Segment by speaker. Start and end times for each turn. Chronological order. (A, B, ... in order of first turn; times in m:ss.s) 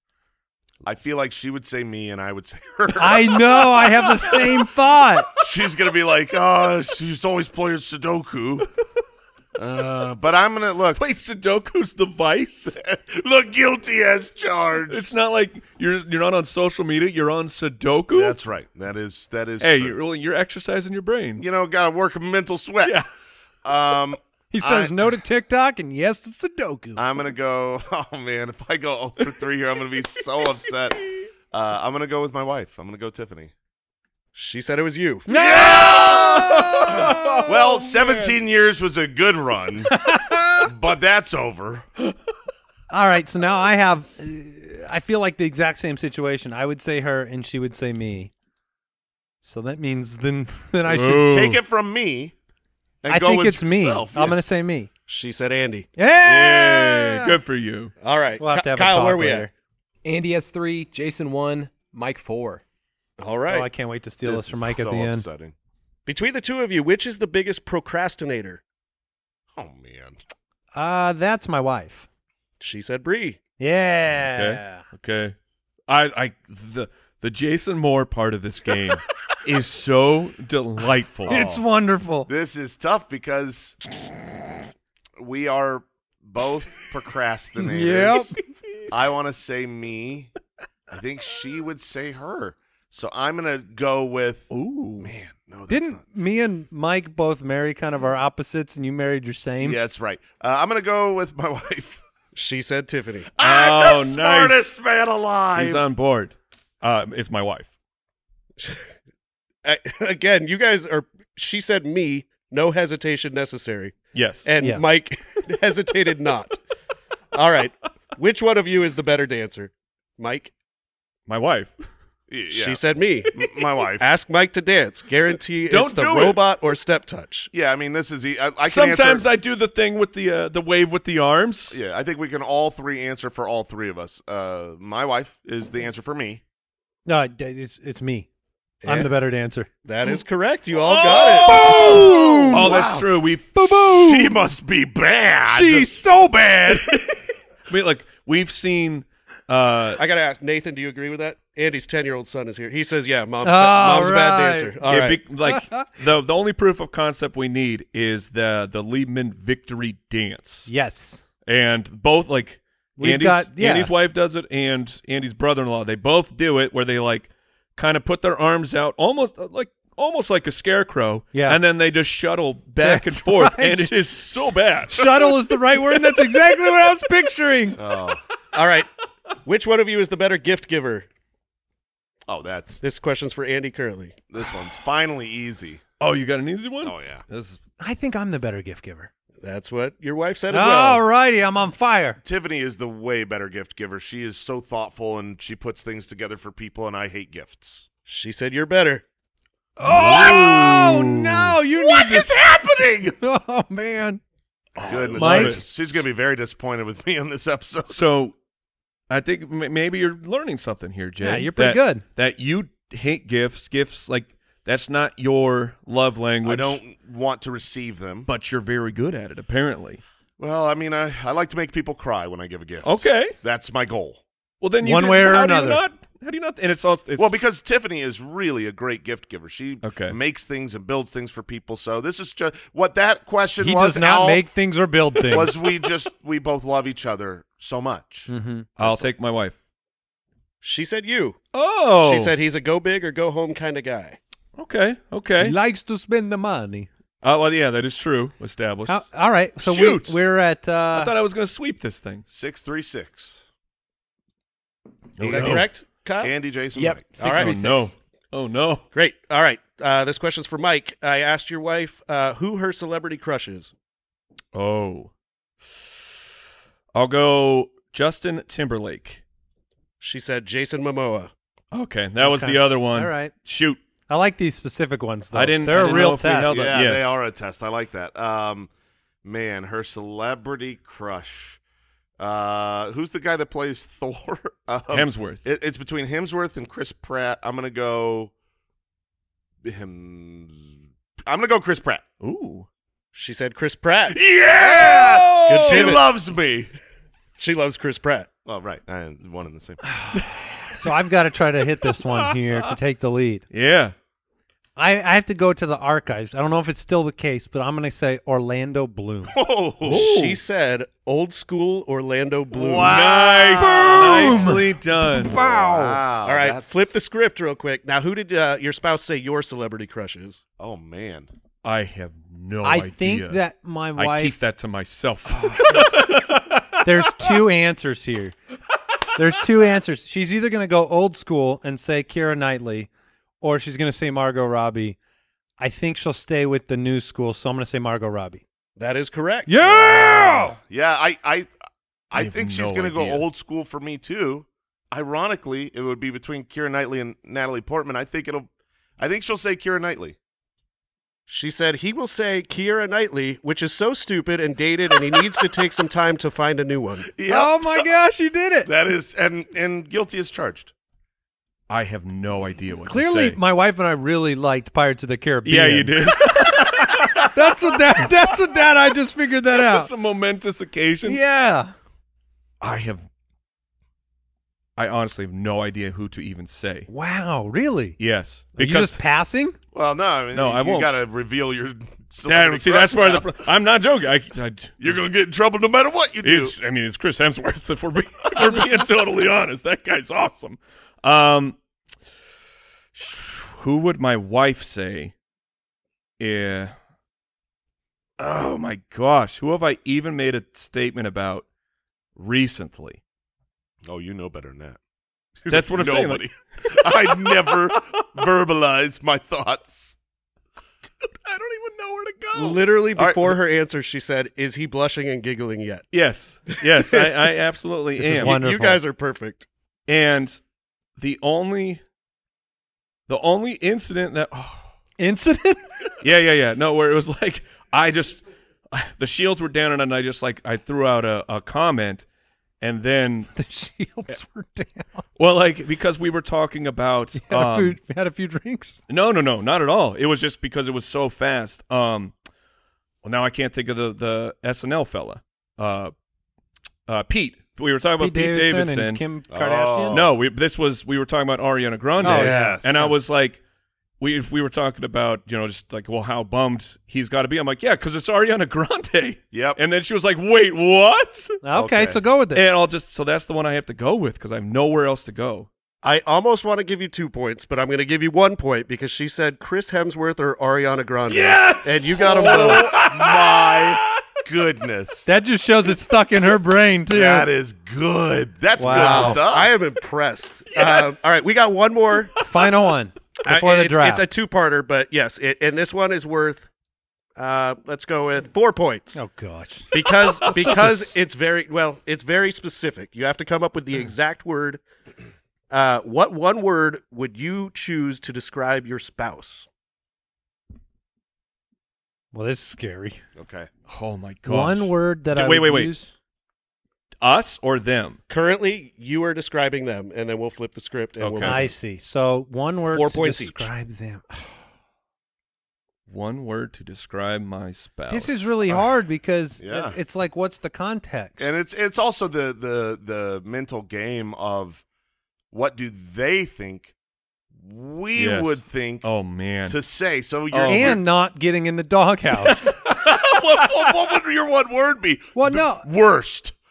0:00.8-0:03.4 A
0:03.0-0:05.3 B
0:03.9-0:04.5 C
0:05.4-0:08.7 A
0:09.6-0:11.0 A
0:11.0-0:12.8 C
0:12.7-0:15.1 A
0:14.9-0:18.4 C
0:18.1-0:20.0 A
0:19.6-0:21.4 C
0:21.4-0:23.0 A
0:23.6-0:25.0 A
0:24.5-0:27.0 B
0:27.0-0:31.0 A
0:31.5-0:33.5 A
0:34.4-0:35.3 D
0:35.3-0:37.5 B
0:35.3-0:39.9 A
0:35.6-0:38.4 C
0:39.9-0:40.7 B
0:40.6-0:41.9 A
0:42.9-0:48.3 B
0:49.4-0:51.3 B
0:50.9-0:51.6 C
0:51.2-0:52.3 A
0:53.0-0:54.4 A
0:53.1-0:54.9 B
0:55.1-0:55.9 D
0:56.0-0:57.4 B
0:56.2-0:57.9 C
0:58.0-0:59.5 D
0:58.4-0:59.5 B
1:00.0-1:02.6 E
1:03.2-1:03.7 D
1:03.5-1:05.2 B
1:04.2-1:05.5 A
1:06.1-1:08.6 D
1:09.6-1:10.2 A
1:10.8-1:12.1 B
1:12.6-1:13.4 D
1:13.6-1:14.8 B
1:14.2-1:15.4 C
1:15.9-1:21.4 C
1:21.3-1:21.6 A
1:21.3-1:22.3 B
1:22.3-1:23.8 A
1:25.2-1:28.4 A
1:27.6-1:28.4 B
1:28.9-1:30.3 A
1:30.9-1:36.0 A
1:34.5-1:35.1 C
1:35.7-1:39.8 B
1:39.6-1:42.0 A
1:42.4-1:43.3 D
1:43.4-1:45.8 A
1:43.4-1:44.8 C
1:45.6-1:47.7 C
1:48.6-1:48.9 D
1:49.6-1:56.6 D
1:54.1-1:54.5 C
1:57.3-2:00.5 D
2:01.3-2:01.7 C
2:02.3-2:02.8 A
2:02.5-2:03.4 D
2:03.3-2:04.1 A
2:04.0-2:07.5 D
2:05.7-2:06.4 C
2:07.5-2:09.3 A
2:08.7-2:11.8 C
2:11.7-2:16.4 A
2:17.1-2:18.3 B
2:18.8-2:19.1 D
2:18.9-2:19.7 B
2:19.8-2:21.7 D
2:20.8-2:23.8 C
2:21.5-2:22.8 B
2:21.5-2:23.1 A
2:23.6-2:24.3 B
2:23.8-2:25.9 A
2:25.5-2:27.0 B
2:26.7-2:27.0 C
2:27.7-2:30.0 C
2:30.0-2:35.2 D
2:33.4-2:34.8 B
2:34.9-2:40.7 C
2:35.4-2:35.8 B
2:40.7-2:41.2 B
2:41.4-2:55.3 C
2:43.0-2:43.9 B
2:51.3-2:51.6 B
2:52.8-2:53.9 B
2:54.9-2:57.8 B
2:57.8-2:58.2 A
2:58.5-2:58.9 D
2:59.4-3:01.1 D
3:02.3-3:02.8 A
3:02.8-3:04.2 D
3:04.3-3:05.8 A
3:06.0-3:07.6 C
3:06.8-3:07.2 A
3:07.8-3:09.1 B
3:09.4-3:11.0 D
3:10.5-3:12.2 B
3:12.2-3:17.9 A
3:18.1-3:19.0 D
3:19.8-3:22.5 B
3:19.9-3:21.5 C
3:19.9-3:20.8 A
3:21.8-3:23.2 A
3:23.2-3:24.2 B
3:24.8-3:25.6 C
3:24.8-3:28.0 A
3:25.1-3:25.6 B
3:27.9-3:28.4 C
3:29.1-3:36.8 C
3:31.2-3:32.0 B
3:36.4-3:38.3 A
3:38.3-3:40.0 C
3:40.4-3:44.2 A
3:42.8-3:43.4 C
3:44.6-3:47.3 C
3:44.8-3:45.8 B
3:47.2-3:54.5 A
3:49.8-3:50.2 C
3:53.6-3:55.6 B
3:55.3-3:59.1 A
3:58.3-3:58.7 B
3:58.8-3:59.6 C
4:00.6-4:01.4 D
4:01.5-4:02.4 C
4:02.0-4:04.2 D
4:04.6-4:05.6 C
4:05.4-4:06.9 B
4:07.2-4:10.2 C
4:08.9-4:11.1 B
4:10.9-4:12.3 C
4:12.3-4:13.4 A
4:15.2-4:15.7 C
4:15.2-4:15.7 A
4:15.2-4:16.3 D
4:16.2-4:17.4 A
4:16.8-4:17.8 E
4:17.1-4:18.9 C
4:17.2-4:17.7 D
4:18.9-4:23.7 D
4:24.5-4:25.1 C
4:26.9-4:29.2 C
4:30.0-4:31.3 D
4:31.7-4:33.8 C
4:32.2-4:33.3 B
4:34.1-4:36.7 B
4:35.3-4:37.2 C
4:36.5-4:38.7 A
4:39.2-4:41.6 A
4:42.2-4:48.3 A
4:44.9-4:45.4 C
4:49.6-4:52.0 A
4:52.2-4:52.7 C
4:53.1-4:54.2 D
4:54.1-4:56.7 A
4:54.6-4:56.0 C
4:55.5-4:56.0 D
4:57.4-4:58.3 D
4:58.5-4:59.8 A
5:00.8-5:03.4 B
5:02.0-5:02.7 C
5:03.5-5:04.0 C
5:04.8-5:09.3 B
5:09.3-5:10.1 A
5:09.8-5:10.4 C
5:09.9-5:13.0 D
5:12.5-5:14.6 A
5:12.8-5:15.4 C
5:13.6-5:16.0 B
5:15.3-5:16.9 A
5:16.2-5:20.4 D
5:20.6-5:21.3 A
5:21.6-5:23.4 C
5:22.6-5:24.4 B
5:24.0-5:27.4 C
5:25.4-5:25.8 B
5:26.8-5:28.4 B
5:29.2-5:32.9 B
5:33.4-5:35.0 B
5:35.6-5:38.4 B
5:38.8-5:39.6 D
5:39.5-5:40.6 B
5:39.6-5:41.5 A
5:42.1-5:48.5 A
5:42.2-5:43.2 C
5:49.0-5:50.2 A
5:51.3-5:57.1 D
5:57.1-5:57.8 A
5:57.3-5:58.7 B
5:58.6-6:00.7 A
6:01.7-6:03.4 C
6:02.9-6:05.9 B
6:05.4-6:08.1 C
6:07.3-6:09.9 B
6:09.5-6:11.2 C
6:11.1-6:11.7 B
6:12.6-6:13.1 C
6:14.8-6:16.9 C
6:16.9-6:18.0 B
6:18.0-6:19.0 C
6:18.6-6:19.6 B
6:19.7-6:23.3 A
6:20.3-6:20.9 C
6:22.2-6:25.0 C
6:24.8-6:26.6 A
6:26.2-6:31.6 C
6:28.4-6:28.6 A
6:33.0-6:35.1 C
6:36.2-6:36.7 C
6:38.2-6:41.5 C
6:42.2-6:43.0 C
6:43.8-6:44.8 A
6:45.4-6:50.0 A
6:45.5-6:47.7 C
6:51.2-6:52.6 C
6:52.4-6:55.9 D
6:53.0-6:53.4 A
6:55.9-6:58.4 C
6:56.7-6:57.1 D
6:58.0-6:58.8 B
6:58.1-6:59.5 D
6:59.9-7:00.4 C
7:01.0-7:01.8 C
7:03.1-7:04.7 C
7:05.0-7:05.7 B
7:06.0-7:12.0 C
7:12.6-7:13.3 C
7:13.4-7:15.0 B
7:15.2-7:17.8 C
7:17.2-7:18.8 B
7:18.9-7:22.1 C
7:23.0-7:25.9 C
7:26.9-7:29.0 C
7:28.0-7:30.0 B
7:29.3-7:30.1 A
7:29.9-7:33.4 C
7:32.0-7:33.0 A
7:32.0-7:32.6 B
7:34.0-7:41.4 C
7:39.3-7:39.6 A
7:41.4-7:42.4 B
7:41.6-7:42.0 A
7:42.3-7:45.5 C
7:45.8-7:52.7 D
7:51.1-7:53.9 C
7:52.2-7:55.1 A
7:55.1-7:57.3 B
7:56.9-7:59.5 A
7:58.6-7:59.2 B
7:58.7-8:02.1 D
8:00.6-8:01.0 C
8:02.2-8:04.0 B
8:03.2-8:06.5 D
8:07.2-8:09.0 D
8:09.0-8:11.0 B
8:09.7-8:14.6 D
8:10.3-8:10.7 C
8:15.5-8:19.5 D
8:22.1-8:23.0 B
8:23.2-8:23.5 A
8:23.7-8:25.7 C
8:24.2-8:25.9 B
8:27.0-8:28.0 C
8:28.1-8:31.5 D
8:31.0-8:31.5 C
8:31.2-8:34.1 B
8:32.7-8:33.5 D
8:35.9-8:38.7 C
8:37.9-8:41.3 B
8:39.4-8:39.8 A
8:41.2-8:44.6 A
8:45.3-8:46.7 A
8:47.3-8:48.9 A
8:48.0-8:49.6 C
8:49.5-8:50.8 A
8:50.3-8:50.8 C
8:50.5-8:52.5 B
8:52.2-8:52.8 C
8:52.7-8:56.4 A
8:55.2-8:55.7 B